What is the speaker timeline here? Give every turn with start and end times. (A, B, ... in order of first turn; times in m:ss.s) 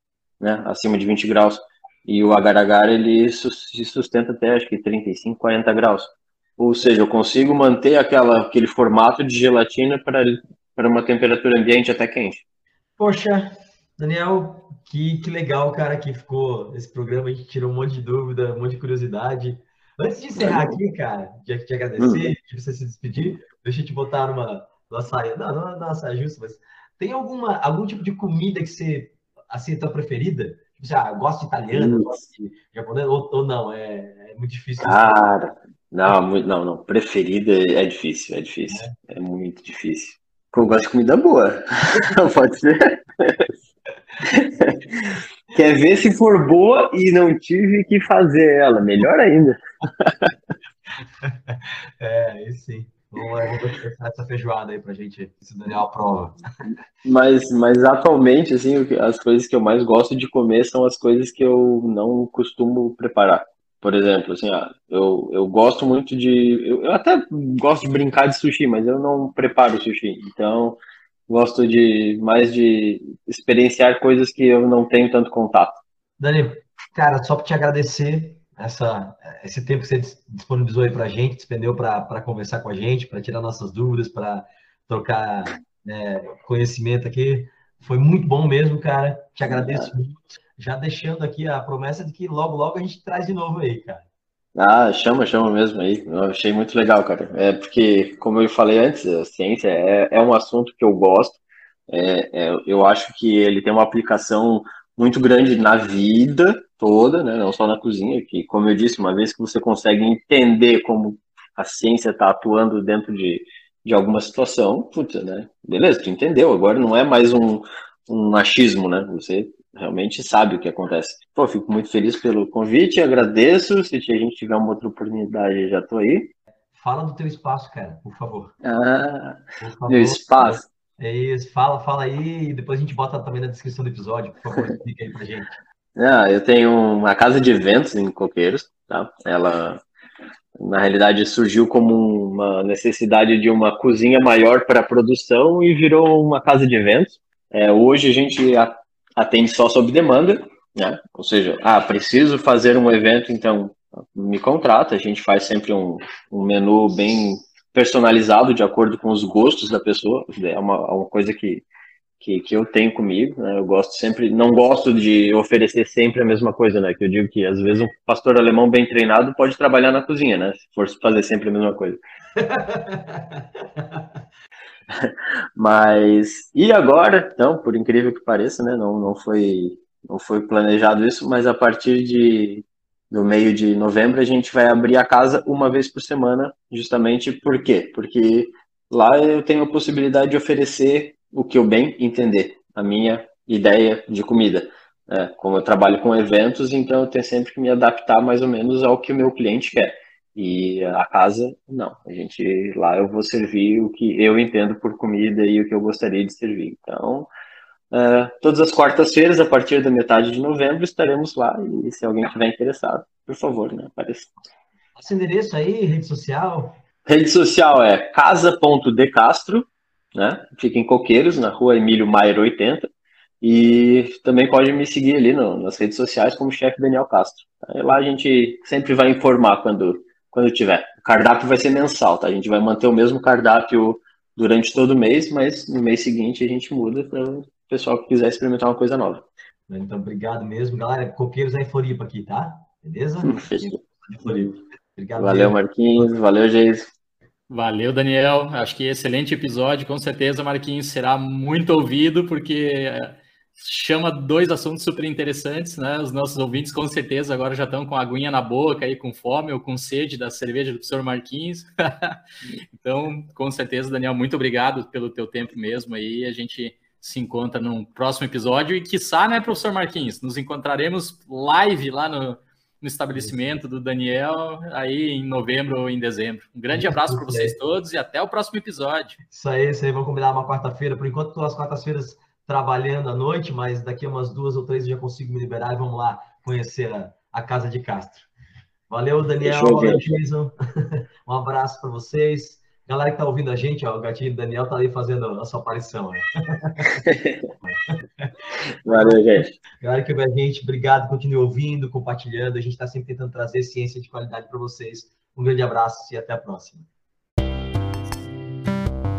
0:00.4-0:12.4 A
0:13.0-0:35.2 B
0:20.4-0:20.7 A
0:22.0-0:22.3 A
0:31.7-0:32.2 A
0:34.8-0:43.5 A
0:38.7-0:39.0 B
0:44.2-0:50.3 A
0:51.2-0:56.4 B
0:57.0-1:15.8 A
1:16.2-1:34.0 B
1:29.4-1:29.9 A
1:34.6-2:06.3 A
2:06.7-2:08.5 B
2:08.6-2:10.6 A
2:09.6-2:15.5 B
2:16.0-2:19.8 A
2:20.6-2:41.6 A
2:42.2-2:52.0 A
2:52.4-2:53.8 B
2:54.9-3:27.3 A
3:27.9-3:34.3 A
3:35.0-3:36.8 B
3:37.0-3:42.9 A
3:43.4-3:59.3 A
3:59.7-4:06.1 B
4:03.2-4:03.8 A
4:05.2-4:06.9 A
4:07.5-4:22.2 C
4:22.7-4:39.2 C
4:36.7-4:37.6 B
4:39.3-4:48.3 B
4:48.9-4:50.5 B
4:49.4-4:50.1 A
4:51.3-4:57.0 B
4:57.0-4:57.4 A
4:57.6-4:58.3 B
4:58.8-4:59.6 A
4:58.8-4:59.2 B
4:59.8-5:06.9 B